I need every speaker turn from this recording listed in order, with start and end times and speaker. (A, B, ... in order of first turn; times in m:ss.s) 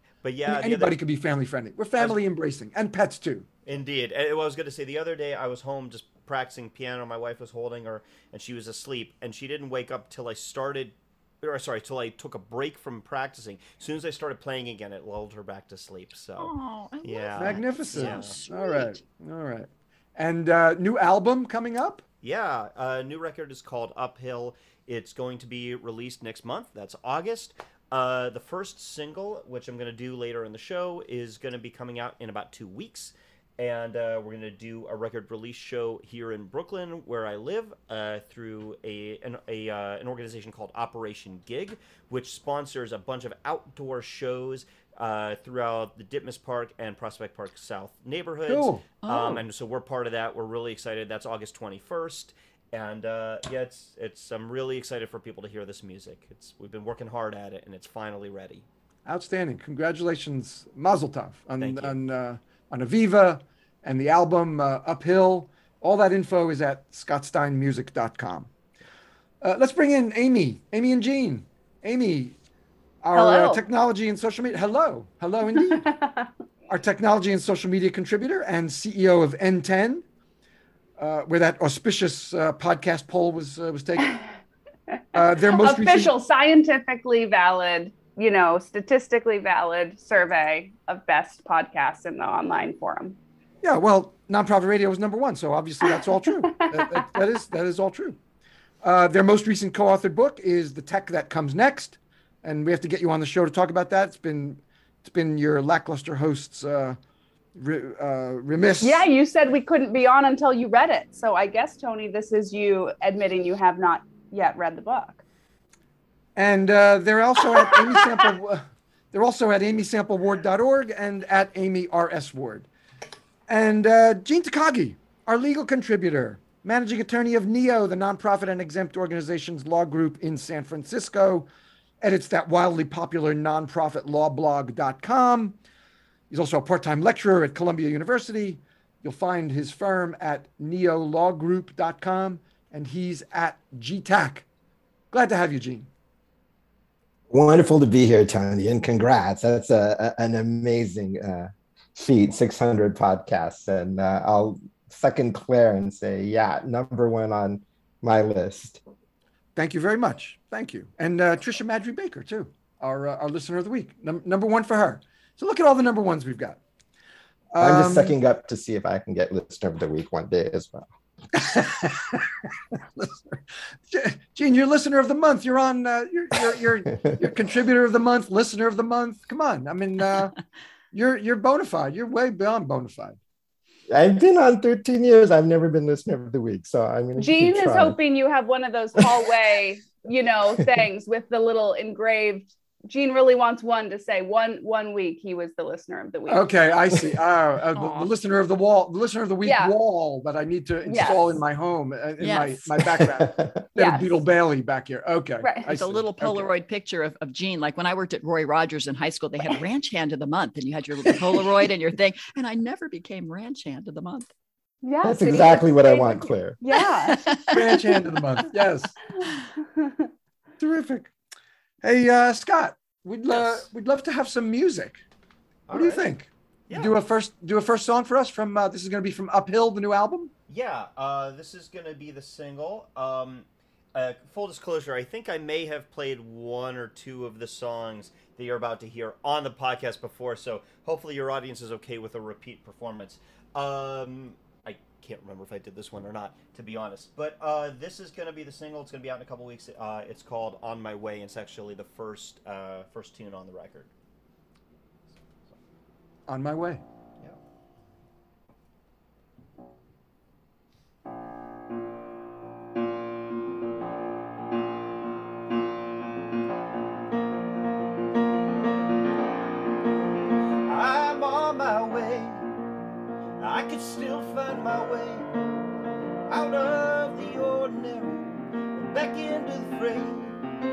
0:00.2-0:01.0 A
0:00.4-0:03.5 B
0:03.6-0:16.5 A
0:16.4-0:19.0 C
0:17.0-0:18.4 A
0:17.4-0:22.0 B
0:22.2-0:58.6 A
0:48.4-0:48.8 B
0:49.0-0:49.4 C
0:59.0-1:08.5 B
1:01.6-1:02.0 A
1:09.4-1:12.4 B
1:13.0-1:15.9 B
1:13.1-1:13.6 D
1:15.5-1:16.3 D
1:16.7-1:20.0 B
1:21.0-1:24.2 B
1:24.9-1:33.2 D
1:25.1-1:26.1 B
1:33.6-1:38.2 B
1:35.8-1:37.1 D
1:38.8-1:47.0 B
1:47.5-1:49.0 B
1:48.8-1:55.2 D
1:56.4-2:02.7 B
1:57.6-1:58.1 D
2:03.5-2:11.5 B
2:12.0-2:15.6 B
2:16.3-2:24.4 B
2:25.1-2:25.9 B
2:27.3-2:38.8 E
2:39.6-2:46.6 B
2:47.5-2:48.2 B
2:47.6-2:50.9 E
2:51.3-2:52.2 B
2:52.8-3:00.3 B
3:00.9-3:03.2 B
3:03.9-3:08.0 E
3:07.2-3:16.4 D
3:16.3-3:26.5 B
3:17.8-3:18.1 C
3:19.4-3:19.7 D
3:20.8-3:21.3 D
3:22.2-3:22.8 C
3:22.9-3:23.6 E
3:23.8-3:24.1 D
3:25.4-3:25.7 D
3:25.7-3:34.3 C
3:34.8-3:37.7 D
3:35.0-3:36.6 E
3:36.7-3:38.0 C
3:37.5-3:38.9 B
3:39.2-3:40.1 D
3:40.6-3:41.1 B
3:41.8-3:45.0 B
3:43.3-3:43.6 A
3:45.7-3:46.1 A
3:45.7-3:50.3 B
3:46.7-3:46.9 A
3:50.5-4:13.9 A
4:16.3-4:16.8 B
4:30.6-4:32.5 A
4:33.4-4:35.3 A
4:36.3-4:40.4 A